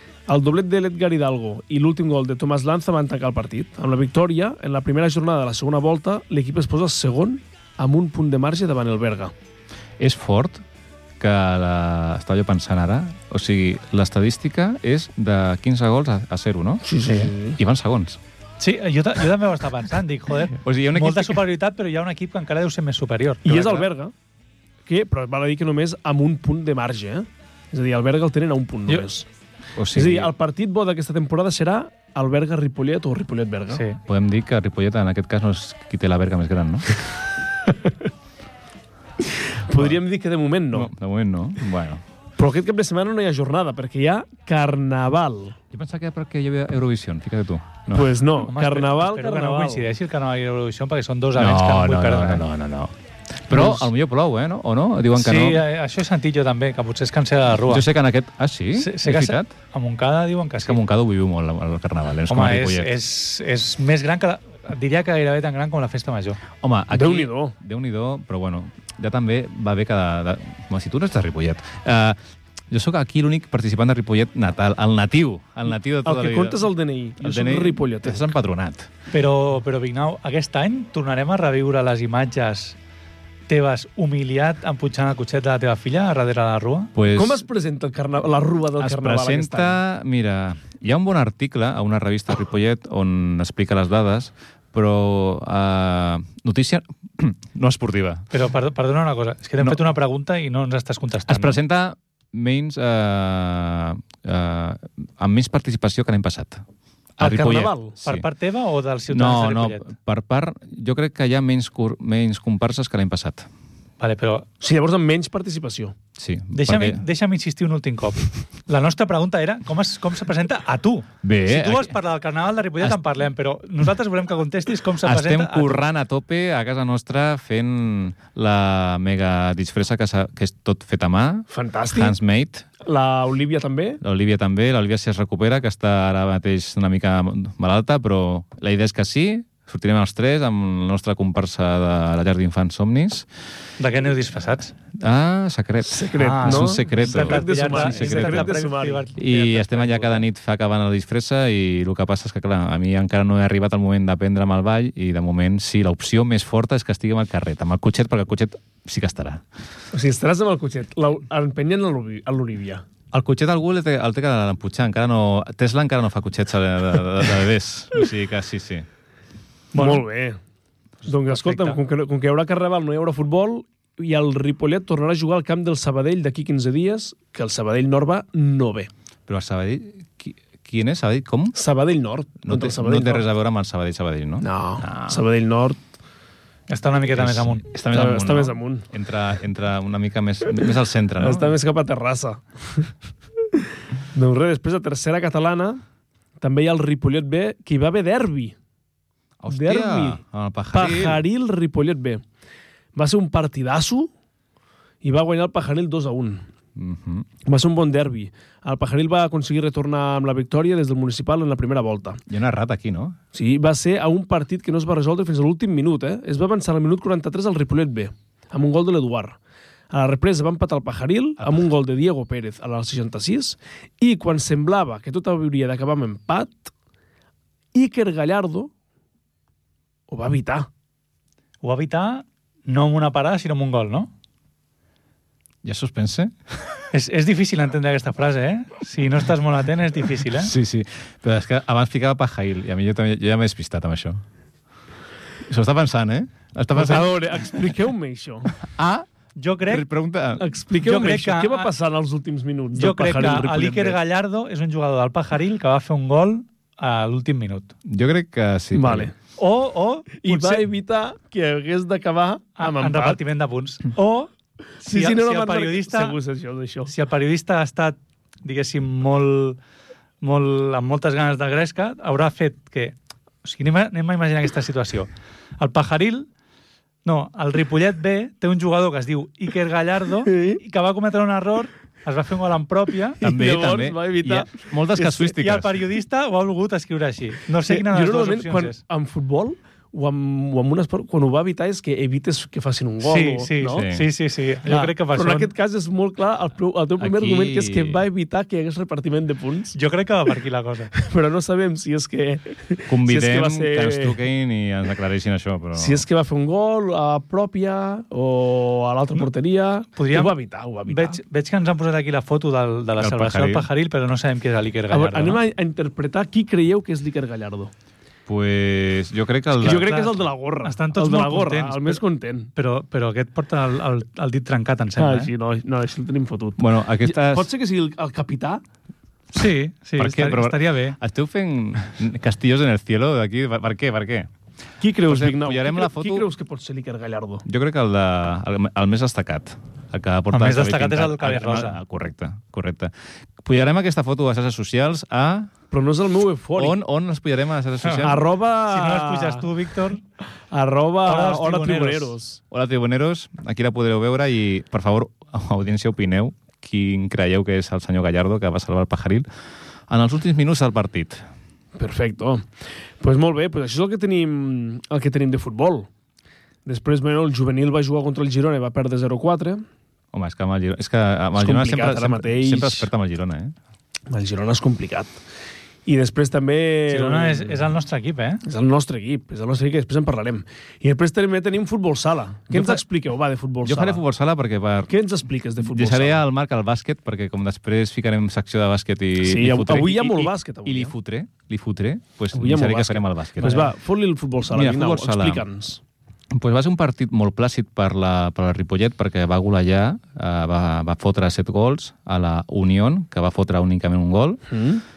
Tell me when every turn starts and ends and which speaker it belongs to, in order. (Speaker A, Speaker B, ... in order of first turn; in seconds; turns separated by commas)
Speaker A: 0.3-9.3, Speaker B: 10.0-10.6, Speaker B: 11.2-18.2, Speaker A: 16.8-17.6, Speaker C: 18.6-23.5, Speaker B: 20.6-21.4, Speaker A: 23.4-24.1, Speaker B: 23.5-23.9, Speaker A: 24.9-29.3, Speaker B: 29.8-30.3, Speaker A: 29.9-33.9, Speaker C: 33.7-34.0, Speaker B: 34.1-36.9, Speaker A: 39.3-40.9, Speaker B: 40.7-42.0, Speaker A: 42.4-45.6, Speaker B: 45.7-48.1, Speaker A: 47.9-49.9, Speaker C: 48.4-52.5, Speaker B: 51.4-55.6, Speaker C: 55.2-57.9, Speaker B: 57.6-59.5, Speaker C: 58.8-60.8, Speaker B: 60.6-62.9, Speaker C: 62.3-66.4, Speaker B: 66.6-72.2, Speaker A: 66.9-67.5, Speaker B: 72.7-76.7, Speaker A: 76.0-78.2, Speaker B: 77.2-78.9, Speaker C: 79.1-82.8, Speaker C: 83.5-86.9, Speaker B: 87.0-87.4, Speaker A: 87.1-89.8, Speaker B: 88.8-98.3, Speaker C: 98.3-101.6, Speaker B: 101.3-106.6, Speaker B: 107.2-108.3, Speaker A: 107.2-108.0, Speaker C: 108.0-109.9, Speaker B: 109.1-113.5, Speaker C: 114.0-114.5, Speaker A: 114.6-116.0, Speaker B: 116.2-117.0, Speaker C: 116.5-125.8, Speaker B: 121.2-121.9, Speaker B: 125.0-132.7, Speaker A: 131.5-132.1, Speaker A: 132.8-134.0, Speaker B: 134.0-143.3, Speaker C: 143.8-144.8, Speaker B: 144.9-148.6, Speaker A: 145.8-149.1, Speaker C: 146.2-150.2, Speaker B: 149.2-159.4, Speaker A: 159.9-162.8, Speaker B: 163.1-168.9, Speaker C: 169.7-170.0, Speaker A: 169.7-170.4, Speaker A: 171.1-178.9, Speaker B: 179.3-181.6, Speaker A: 181.5-183.3, Speaker B: 182.4-185.2, Speaker A: 184.4-185.8, Speaker C: 186.7-187.7, Speaker B: 187.1-191.6, Speaker A: 187.9-188.9, Speaker A: 191.2-192.9, Speaker A: 193.5-195.8, Speaker A: 196.4-198.6, Speaker B: 199.4-201.2, Speaker A: 199.5-200.2, Speaker A: 200.7-202.2, Speaker A: 202.9-204.1, Speaker A: 205.0-206.4, Speaker B: 206.8-207.3, Speaker A: 207.4-212.2, Speaker B: 212.3-213.2, Speaker A: 213.3-219.4, Speaker A: 219.9-226.7, Speaker A: 227.7-228.7, Speaker A: 230.1-230.7, Speaker C: 231.6-234.1, Speaker B: 235.6-236.7, Speaker C: 236.9-240.5, Speaker B: 240.3-244.2, Speaker B: 245.5-247.1, Speaker A: 246.7-248.5, Speaker B: 248.6-249.1, Speaker C: 249.4-249.9, Speaker B: 249.7-250.4, Speaker A: 250.4-254.0, Speaker C: 250.8-251.7, Speaker C: 252.8-257.7, Speaker B: 257.9-259.1, Speaker A: 258.7-259.1, Speaker C: 259.4-260.6, Speaker A: 260.2-263.2, Speaker C: 262.6-264.3, Speaker C: 264.8-266.2, Speaker A: 264.8-266.9, Speaker C: 266.9-269.6, Speaker C: 270.2-276.3, Speaker C: 277.1-283.2, Speaker A: 280.3-280.6, Speaker A: 283.2-284.6, Speaker B: 283.2-285.8, Speaker C: 285.0-288.8, Speaker A: 287.7-293.9, Speaker C: 293.0-295.5, Speaker B: 293.7-294.1, Speaker A: 294.6-299.8, Speaker B: 297.0-298.0, Speaker C: 299.8-300.9, Speaker A: 300.9-304.2, Speaker B: 302.9-306.0, Speaker A: 305.8-311.2, Speaker C: 310.0-310.4, Speaker C: 310.9-315.4, Speaker B: 313.0-313.7, Speaker A: 314.9-317.7, Speaker B: 318.3-320.0, Speaker A: 319.6-322.5, Speaker C: 319.8-322.0, Speaker C: 322.6-325.3, Speaker A: 325.0-328.6, Speaker B: 326.6-327.5, Speaker C: 329.3-331.0, Speaker B: 330.0-334.3, Speaker A: 334.8-337.4, Speaker B: 335.1-336.3, Speaker B: 337.4-345.5, Speaker C: 340.3-341.8, Speaker A: 345.7-346.8, Speaker B: 346.6-348.2, Speaker C: 347.8-350.0, Speaker A: 348.0-349.5, Speaker A: 350.5-352.4, Speaker C: 351.1-352.2, Speaker B: 352.5-359.3, Speaker B: 359.9-361.2, Speaker A: 361.8-362.5, Speaker A: 363.0-365.9, Speaker A: 366.7-369.6, Speaker B: 370.1-373.6, Speaker A: 371.4-372.9, Speaker A: 374.1-375.2, Speaker A: 375.9-377.6, Speaker C: 376.9-378.4, Speaker A: 378.4-384.0, Speaker B: 383.6-384.9, Speaker A: 384.9-386.2, Speaker B: 385.6-393.7, Speaker A: 389.2-390.9, Speaker A: 392.3-395.8, Speaker B: 394.5-395.4, Speaker B: 396.3-404.4, Speaker A: 404.5-404.8